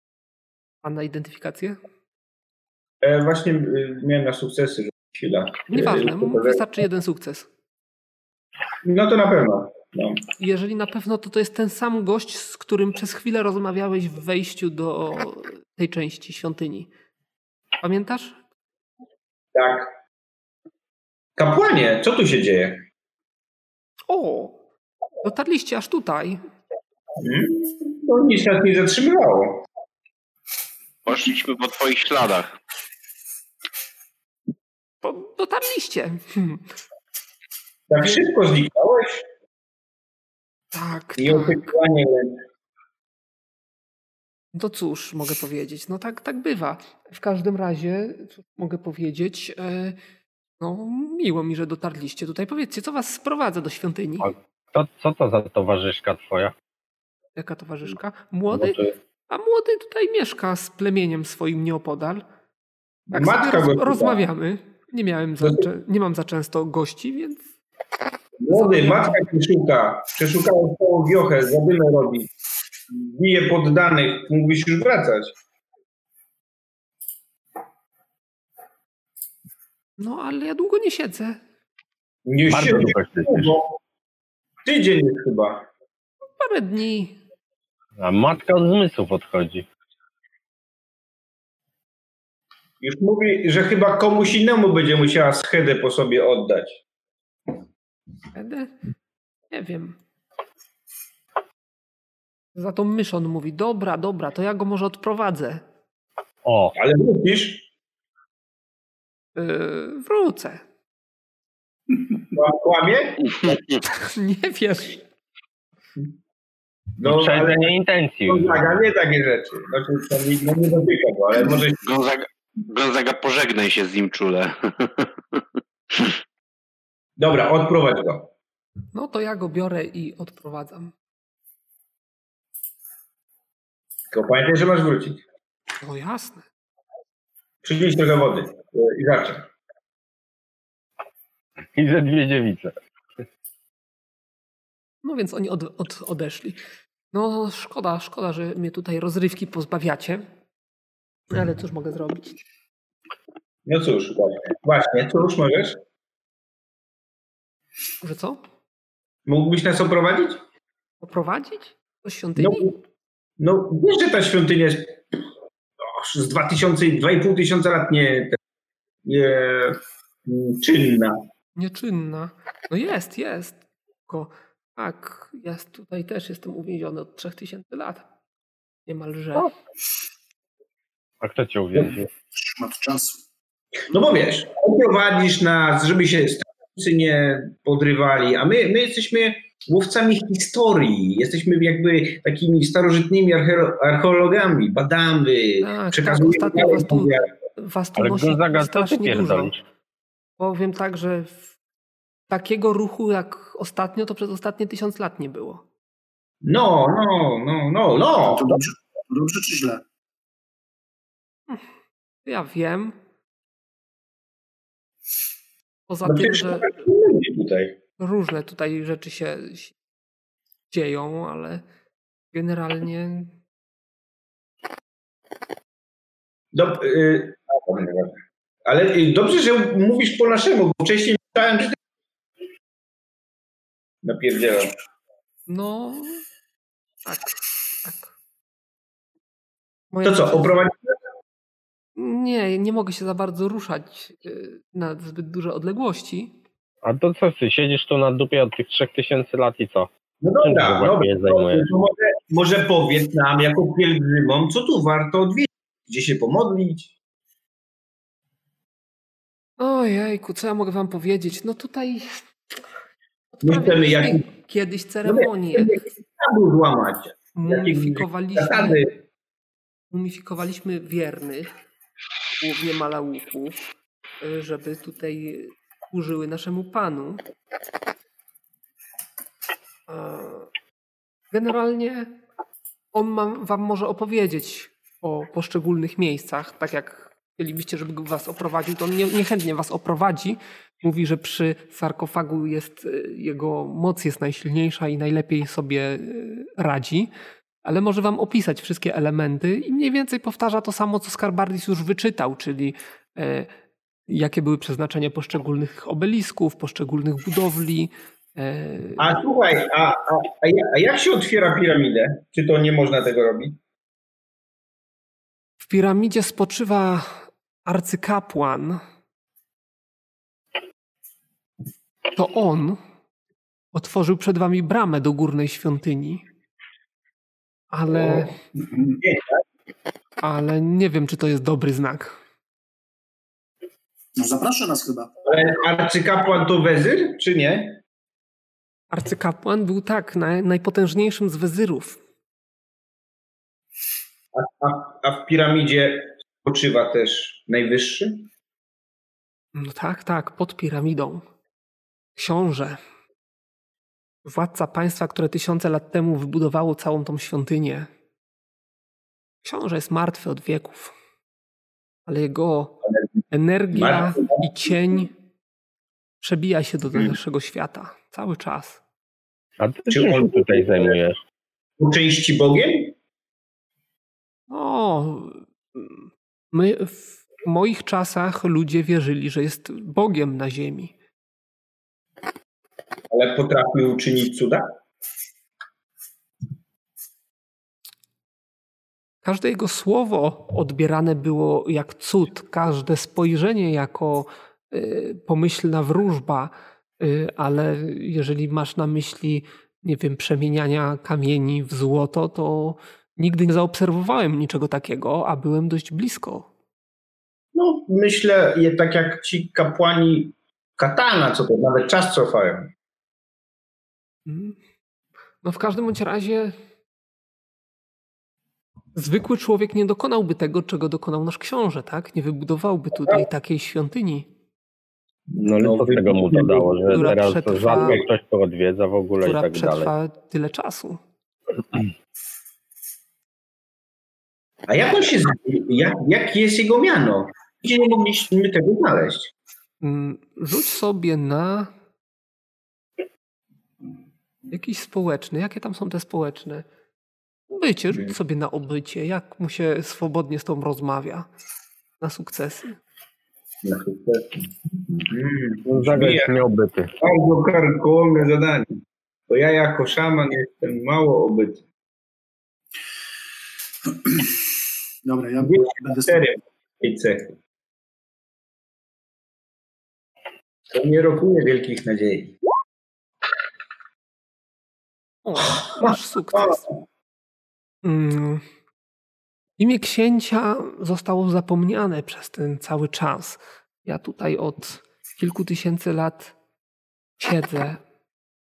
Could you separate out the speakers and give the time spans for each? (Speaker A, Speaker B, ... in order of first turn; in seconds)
Speaker A: 0.8-1.8, 5.7-7.5, 10.4-16.9, 17.8-18.4, 24.1-24.6, 25.2-26.4, 35.0-36.6, 40.7-41.7, 44.5-50.0, 50.6-54.3, 57.4-62.2, 63.1-67.4, 68.5-69.2, 80.0-81.4, 86.4-87.2, 98.3-98.7, 99.5-100.0, 102.5-105.6, 109.3-110.6, 113.9-115.0, 128.9-130.9, 135.8-136.4, 145.0-146.6, 147.1-150.2, 151.3-152.4, 158.0-158.4, 161.0-162.7, 171.6-178.1, 178.8-179.5, 195.6-199.5, 200.4-201.4, 202.3-205.6, 212.2-212.9, 215.9-216.8, 218.0-219.7, 220.7-221.6, 222.3-223.3, 235.5-236.2, 237.0-237.3, 237.8-238.1, 239.9-240.6, 241.9-246.3, 259.6-262.2, 263.4-265.7, 267.3-268.9, 269.9-271.5, 272.4-273.6, 274.2-277.2, 279.9-280.5, 281.3-282.1, 282.9-297.1, 297.6-303.5, 304.1-309.2, 315.6-318.8, 322.1-322.8, 323.7-326.2, 327.7-328.4, 330.2-332.1, 338.9-342.0, 349.5-351.2, 352.1-352.8, 354.2-357.9, 359.4-360.9, 362.1-365.1, 366.2-368.8, 374.5-380.9, 389.2-406.5, 414.2-414.6, 415.4-416.5, 418.9-424.3, 426.9-428.0, 429.2-431.0, 439.8-441.7, 444.5-446.6, 447.5-451.3, 452.0-452.8, 475.2-476.7, 477.8-478.4, 479.6-486.3, 487.2-487.8
Speaker B: 3.0-6.6, 8.8-10.2, 19.5-20.0, 21.4-22.8, 27.2-29.6, 37.9-39.2, 41.2-42.4, 63.1-64.2, 65.4-65.7, 68.4-72.3, 72.9-75.3, 82.2-83.8, 84.6-85.7, 92.8-96.8, 106.8-107.7, 112.3-113.6, 117.0-117.7, 118.3-121.8, 127.2-128.3, 134.1-135.2, 137.6-139.5, 153.7-155.8, 159.2-160.4, 162.3-162.7, 163.4-165.0, 165.8-168.4, 169.0-171.2, 183.9-197.3, 206.4-208.6, 216.0-217.8, 226.5-231.8, 234.0-234.8, 240.0-240.9, 250.2-256.9, 263.4-264.2, 265.0-268.9, 309.0-313.6, 327.9-328.3, 329.0-329.4, 335.2-337.8, 344.3-348.3, 363.7-364.5, 369.9-370.9, 371.8-372.9, 383.1-384.7, 407.5-412.7, 425.3-426.9, 427.8-428.1, 434.7-439.3, 453.6-456.4, 457.0-458.8, 459.3-461.6, 465.4-467.4, 470.7-472.3, 475.8-476.5
Speaker C: 31.0-32.6, 121.6-126.1
Speaker D: 54.2-56.5, 58.5-58.9, 82.5-83.5, 88.0-89.7, 106.4-106.7, 117.0-118.6, 141.7-142.7, 181.2-182.1, 197.9-199.6, 246.8-249.9, 250.4-251.7, 369.6-371.2, 425.4-429.9, 455.6-456.9
Speaker E: 182.3-183.2, 208.2-209.8, 328.6-328.9, 334.2-335.1, 464.0-464.3, 465.0-466.3